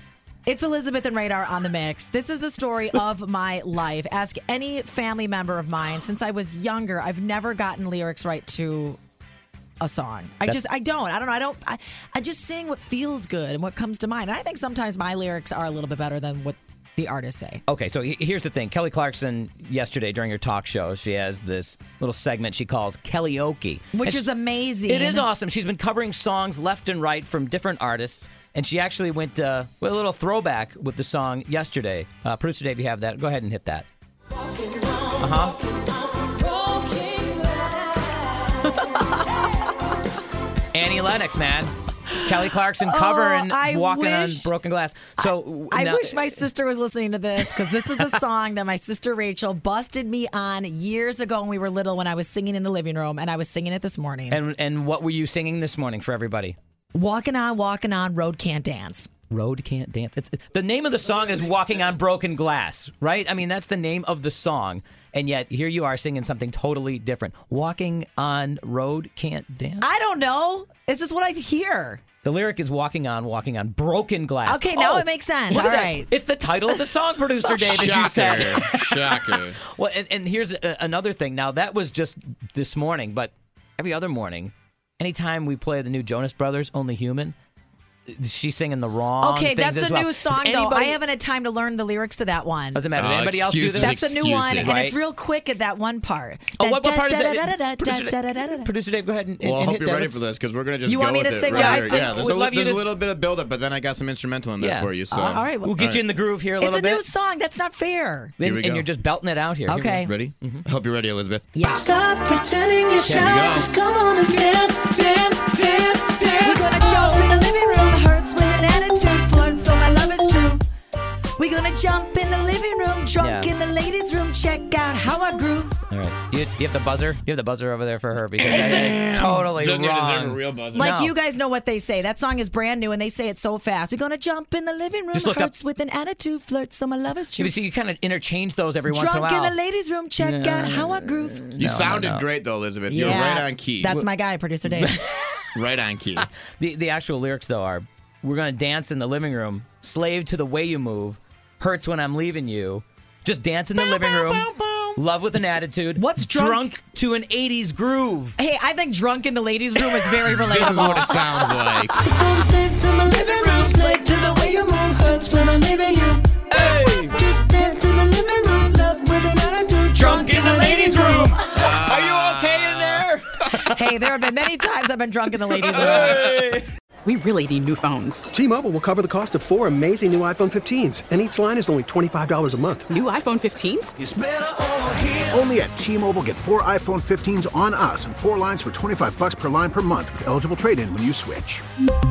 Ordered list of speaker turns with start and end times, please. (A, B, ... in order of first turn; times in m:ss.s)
0:00.4-0:09.0 A
0:09.8-0:17.6 A
0:17.7-0:24.3 B
0:23.9-0:25.3 A
0:24.9-0:33.8 B
0:35.2-0:35.6 B
0:35.8-0:37.6 C
0:38.6-0:39.0 B
0:40.7-0:46.4 B
0:42.8-0:44.5 A
0:45.2-0:54.4 A
0:54.3-0:56.6 B
0:56.9-0:59.1 A
0:59.3-1:09.8 B
1:09.8-1:12.0 A
1:12.2-1:27.3 B
1:14.4-1:16.1 A
1:17.6-1:19.6 D
1:28.1-1:31.0 B
1:29.2-1:32.9 A
1:32.7-1:35.0 B
1:32.9-1:34.8 D
1:33.7-1:38.7 A
1:36.6-1:40.2 B
1:39.4-1:46.0 D
1:40.8-1:42.3 A
1:41.5-1:42.9 B
1:44.6-1:45.0 B
1:45.1-1:45.8 A
1:45.6-1:47.0 B
1:46.6-1:48.4 A
1:48.4-1:50.6 B
1:48.4-1:48.9 D
1:49.7-1:50.1 A
1:50.0-1:51.5 D
1:51.5-1:51.8 A
1:51.7-1:57.4 C
1:53.0-1:53.5 B
1:53.1-1:53.7 D
1:56.4-2:00.6 A
2:01.4-2:05.8 A
2:03.2-2:03.5 B
2:05.9-2:11.1 B
2:08.4-2:09.4 A
2:08.5-2:10.9 D
2:10.7-2:17.5 A
2:15.1-2:15.5 B
2:17.4-2:19.6 B
2:18.9-2:21.6 A
2:20.2-2:22.3 B
2:21.6-2:24.0 D
2:22.9-2:25.0 A
2:24.6-2:25.2 B
2:25.5-2:26.3 D
2:26.6-2:38.4 B
2:34.2-2:35.0 D
2:36.0-2:36.7 A
2:38.4-2:41.7 A
2:40.4-2:42.0 D
2:42.0-2:50.5 C
2:46.5-2:47.2 B
2:49.9-2:54.0 B
2:50.0-2:51.5 A
2:51.6-2:52.8 D
2:53.6-2:56.3 A
2:55.5-2:56.7 B
2:57.0-2:58.2 E
2:58.3-3:02.9 F
3:02.9-3:04.0 E
3:04.0-3:11.6 G